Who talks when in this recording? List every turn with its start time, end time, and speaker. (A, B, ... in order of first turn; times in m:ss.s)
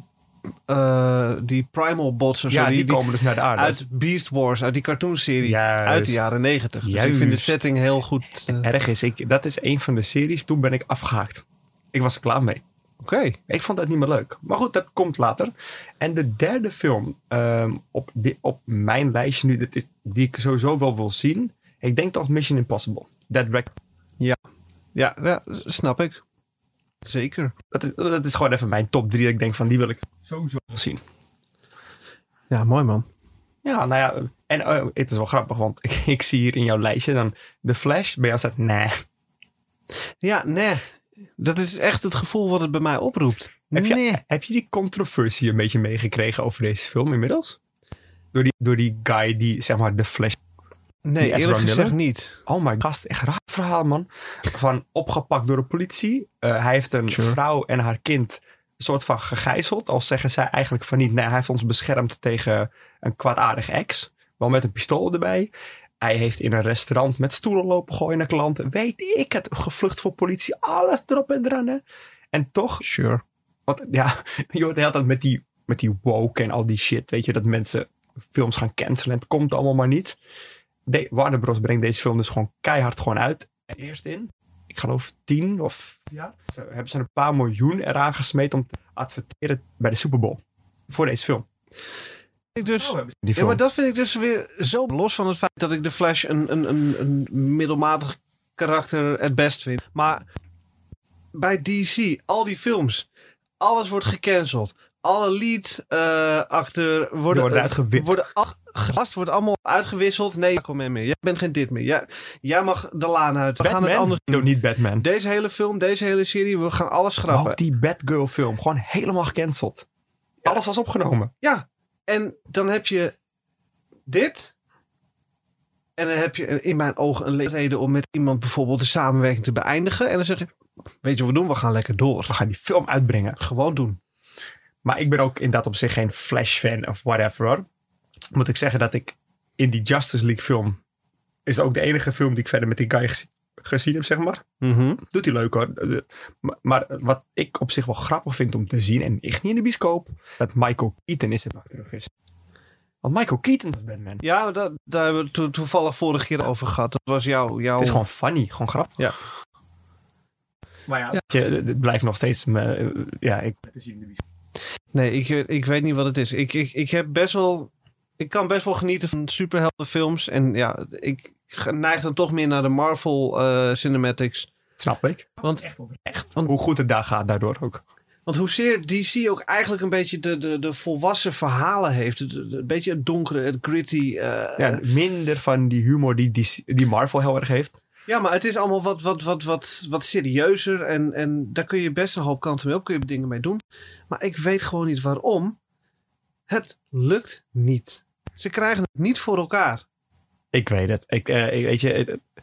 0:00.7-0:08.7 A
0:02.5-0:03.8 B
0:05.4-0:06.3 B
0:06.8-0:07.6 B
0:08.5-0:12.6 B
0:13.0-0:13.4 A
0:13.5-0:23.8 B
0:24.9-0:26.2 A
0:27.0-0:27.5 A
0:27.7-0:31.0 B
0:32.5-0:33.0 A
0:33.6-0:39.0 B
0:40.2-0:44.2 A
0:43.7-0:47.6 B
0:48.3-0:50.4 B
0:51.0-0:52.4 A
0:51.2-1:12.8 B
0:57.1-0:57.4 A
1:12.8-1:13.2 A
1:13.7-1:20.2 B
1:20.9-1:31.4 B
1:32.5-1:40.2 A
1:32.7-1:33.6 B
1:41.3-1:43.1 A
1:43.6-1:57.6 A
1:47.3-1:48.2 B
1:53.6-1:55.0 B
1:57.3-1:59.8 B
2:00.4-2:01.3 B
2:01.4-2:03.1 A
2:04.1-2:04.5 A
2:06.0-2:10.5 A
2:11.0-2:12.3 A
2:12.3-2:13.4 B
2:13.4-2:14.0 A
2:14.8-2:17.6 B
2:18.3-2:20.8 B
2:21.4-2:24.4 B
2:24.6-2:25.0 A
2:25.0-2:32.1 B
2:33.0-2:34.2 B
2:34.2-2:38.0 A
2:37.8-2:38.9 B
2:40.9-2:44.2 B
2:44.9-2:54.5 A
2:54.8-2:57.8 B
2:58.2-3:04.8 A
3:04.6-3:07.8 B
3:08.1-3:15.6 A
3:16.5-3:19.8 A
3:20.5-3:22.3 B